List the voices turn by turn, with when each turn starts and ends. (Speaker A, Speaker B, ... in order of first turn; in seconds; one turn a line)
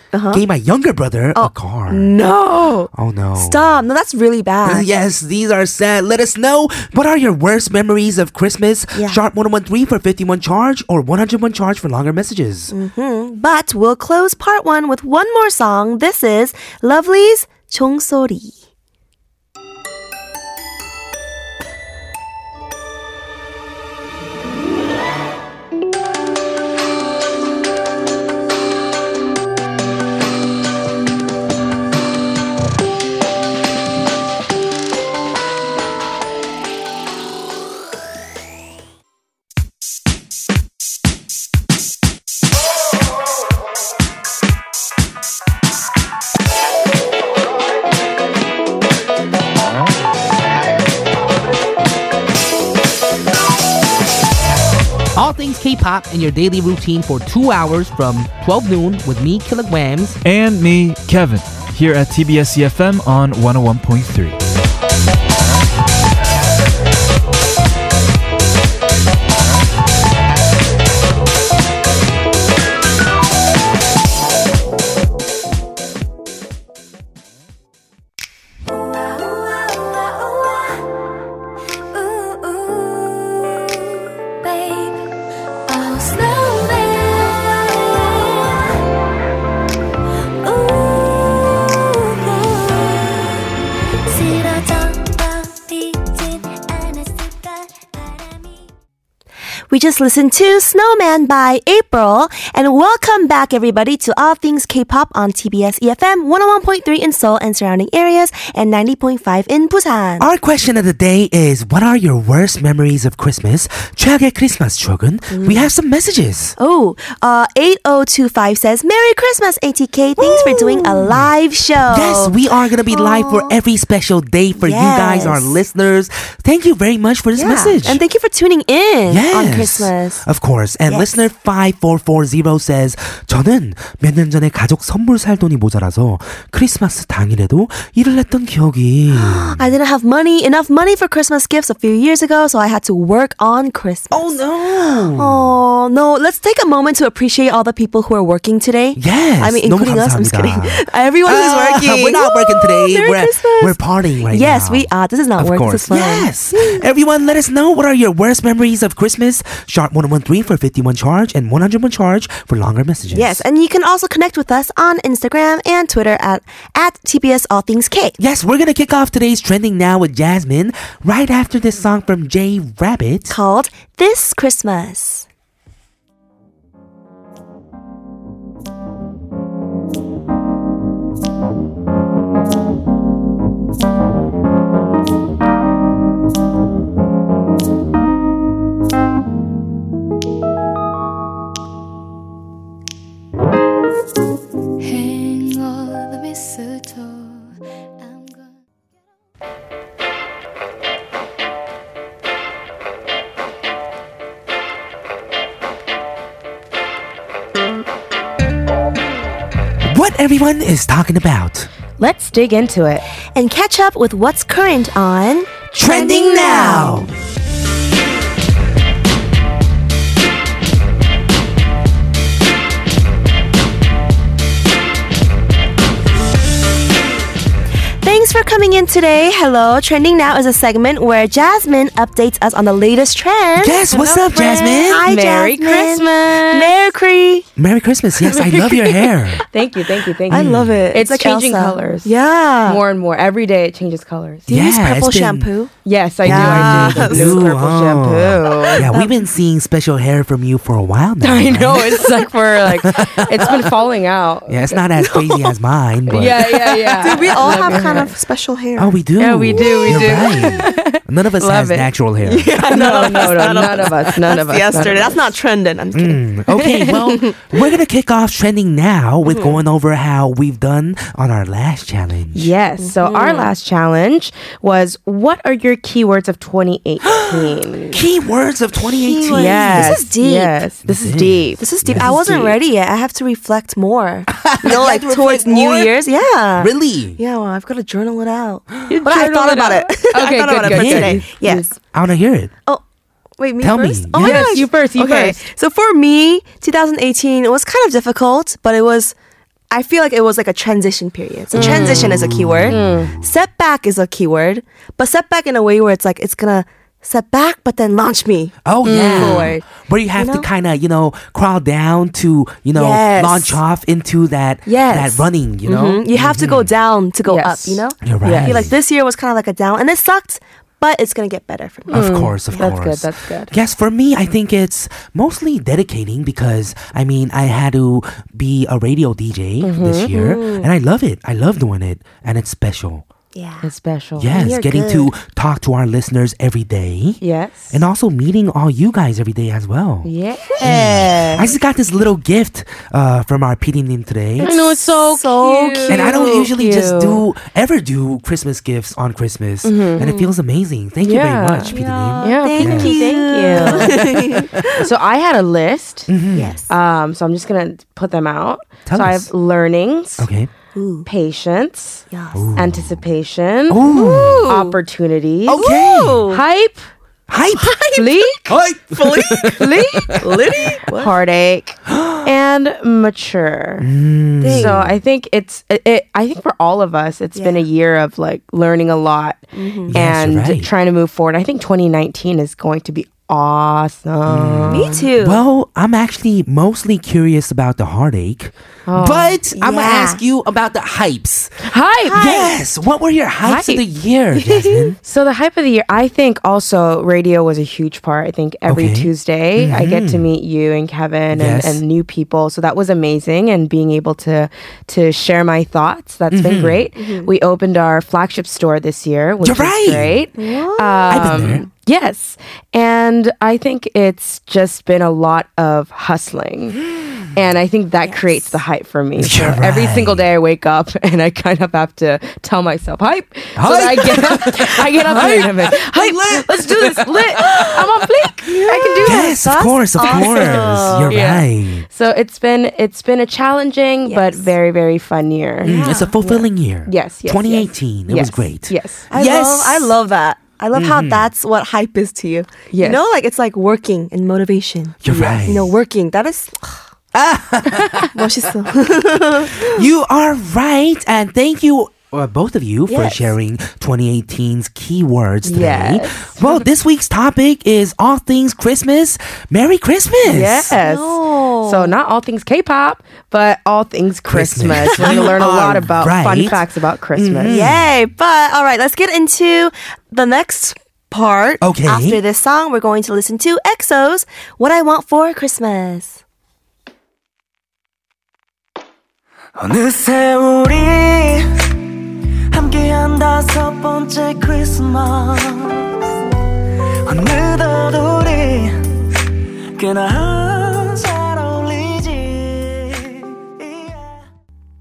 Speaker A: 0.1-0.4
Speaker B: 0.3-2.1
Speaker A: 1.3-4.9
Speaker B: 2.9-3.6
Speaker B: 4.6-12.7
Speaker A: 8.9-9.2
Speaker A: 12.7-18.5
Speaker B: 55.1-60.2
Speaker C: 60.2-64.4
Speaker D: 78.7-80.9
Speaker D: 81.9-85.1
Speaker D: 85.7-88.8
Speaker D: 90.4-93.5
Speaker D: 94.0-98.6
Speaker A: 99.7-110.3
Speaker B: 110.2-116.5
Speaker A: 115.3-115.7
Speaker A: 116.6-122.3
Speaker B: 120.2-121.3
Speaker B: 121.9-128.0
Speaker A: 122.9-123.5
Speaker A: 124.6-125.6
Speaker A: 127.3-130.2
Speaker B: 129.1-139.7
Speaker A: 130.9-131.2
Speaker A: 139.1-144.3
Speaker B: 144.1-145.5
Speaker A: 145.1-153.8
Speaker B: 148.9-163.4
Speaker A: 154.3-156.8
Speaker A: 163.1-168.2
Speaker B: 168.2-173.3
Speaker A: 173.3-175.2
Speaker D: 194.8-198.5
Speaker B: 209.8-211.7
Speaker E: 212.0-213.0
Speaker A: 213.3-217.1
Speaker B: 215.7-217.1
Speaker A: 228.0-233.8
Speaker B: 233.6-235.0
Speaker E: 233.9-236.7
Speaker A: 234.6-237.5
Speaker B: 237.6-239.4
Speaker E: 238.2-242.1
Speaker A: 240.3-242.8
Speaker B: 240.3-240.8
Speaker E: 242.7-244.5
Speaker A: 244.5-245.7
Speaker B: 244.5-245.5
Speaker E: 245.8-248.9
Speaker B: 246.2-252.1
Speaker A: 246.2-247.4
Speaker A: 248.6-249.2
Speaker E: 251.2-254.8
Speaker B: 252.6-253.6
Speaker B: 254.5-256.5
Speaker A: 255.0-255.5
Speaker E: 256.1-258.1
Speaker A: 256.9-259.0
Speaker B: 257.3-257.9
Speaker B: 258.8-263.1
Speaker E: 259.2-261.9
Speaker A: 259.6-260.5
Speaker A: 262.2-266.2
Speaker E: 262.7-265.2
Speaker B: 265.9-272.5
Speaker E: 266.6-266.9
Speaker A: 269.2-269.6
Speaker E: 272.3-278.0
Speaker A: 272.8-273.5
Speaker B: 277.1-280.1
Speaker A: 278.9-280.6
Speaker E: 279.3-282.5
Speaker B: 280.8-282.6
Speaker A: 281.6-291.8
Speaker B: 284.4-285.9
Speaker B: 286.6-287.2
Speaker E: 288.9-291.7
Speaker B: 290.6-291.2
Speaker B: 291.9-292.5
Speaker A: 293.4-299.1
Speaker B: 293.6-294.6
Speaker E: 294.2-295.4
Speaker A: 299.7-310.5
Speaker E: 301.5-303.1
Speaker B: 301.5-303.3
Speaker B: 308.6-316.7
Speaker E: 308.9-309.5
Speaker A: 312.7-313.6
Speaker E: 314.6-315.2
Speaker A: 315.6-322.7
Speaker E: 317.3-318.6
Speaker B: 318.0-318.7
Speaker E: 321.9-323.5
Speaker B: 321.9-333.0
Speaker E: 329.6-330.1
Speaker A: 330.1-330.7
Speaker A: 333.3-333.6
Speaker E: 333.6-334.7
Speaker B: 334.2-340.1
Speaker A: 334.3-335.1
Speaker E: 337.2-337.8
Speaker E: 340.0-340.7
Speaker A: 340.6-341.4
Speaker B: 340.6-344.5
Speaker A: 344.4-346.1
Speaker E: 344.4-347.2
Speaker B: 345.9-354.6
Speaker E: 349.6-350.0
Speaker A: 350.0-350.3
Speaker E: 351.0-354.2
Speaker A: 351.7-354.7
Speaker E: 354.8-356.1
Speaker B: 356.1-356.6
Speaker A: 356.3-356.7
Speaker E: 356.7-360.3
Speaker B: 358.9-359.3
Speaker B: 360.2-360.5
Speaker A: 360.7-361.1
Speaker E: 361.1-362.0
Speaker A: 362.1-362.4
Speaker B: 362.3-363.0
Speaker E: 362.6-363.8
Speaker B: 363.7-364.5
Speaker A: 363.9-364.8
Speaker E: 364.5-365.6
Speaker B: 365.5-366.3
Speaker A: 365.6-366.4
Speaker E: 366.3-366.8
Speaker B: 367.3-367.8
Speaker A: 367.6-368.3
Speaker E: 367.9-368.6
Speaker B: 368.5-370.6
Speaker A: 368.9-369.6
Speaker E: 369.5-370.2
Speaker A: 370.2-371.1
Speaker E: 370.9-373.9
Speaker B: 371.9-372.3
Speaker B: 373.8-374.9
Speaker A: 374.4-374.9
Speaker E: 374.5-385.0
Speaker A: 377.3-377.6
Speaker A: 379.5-379.9
Speaker B: 379.9-380.7
Speaker B: 384.3-394.9
Speaker A: 384.7-385.4
Speaker E: 388.9-389.4
Speaker A: 389.5-390.2
Speaker E: 391.6-392.3
Speaker A: 392.1-392.6
Speaker E: 393.4-393.8
Speaker E: 395.0-416.8
Speaker B: 398.7-400.3
Speaker B: 401.3-401.8
Speaker B: 406.3-406.9
Speaker A: 407.0-407.3
Speaker B: 409.4-410.2
Speaker A: 410.4-411.4
Speaker B: 411.1-411.6
Speaker B: 416.9-417.2
Speaker E: 417.3-439.0
Speaker A: 418.0-418.5
Speaker B: 419.2-420.3
Speaker B: 423.6-427.8
Speaker A: 428.5-429.4
Speaker B: 429.0-431.8
Speaker A: 430.0-431.1
Speaker A: 434.1-434.5
Speaker A: 435.6-436.2
Speaker B: 435.6-439.9
Speaker A: 439.1-446.8
Speaker B: 440.7-441.3
Speaker E: 442.7-443.0
Speaker B: 445.0-445.7
Speaker B: 447.1-448.1
Speaker A: 448.1-449.9
Speaker B: 449.6-460.7
Speaker A: 452.9-453.3
Speaker E: 455.4-456.4
Speaker E: 460.2-467.5
Speaker A: 460.8-461.9
Speaker B: 464.3-466.6
Speaker A: 465.0-465.3
Speaker B: 467.1-467.9
Speaker A: 467.4-476.2
Speaker B: 471.6-472.2
Speaker F: 479.6-481.7
Speaker F: 482.5-485.9
Speaker F: 487.1-489.1
Speaker F: 489.8-494.2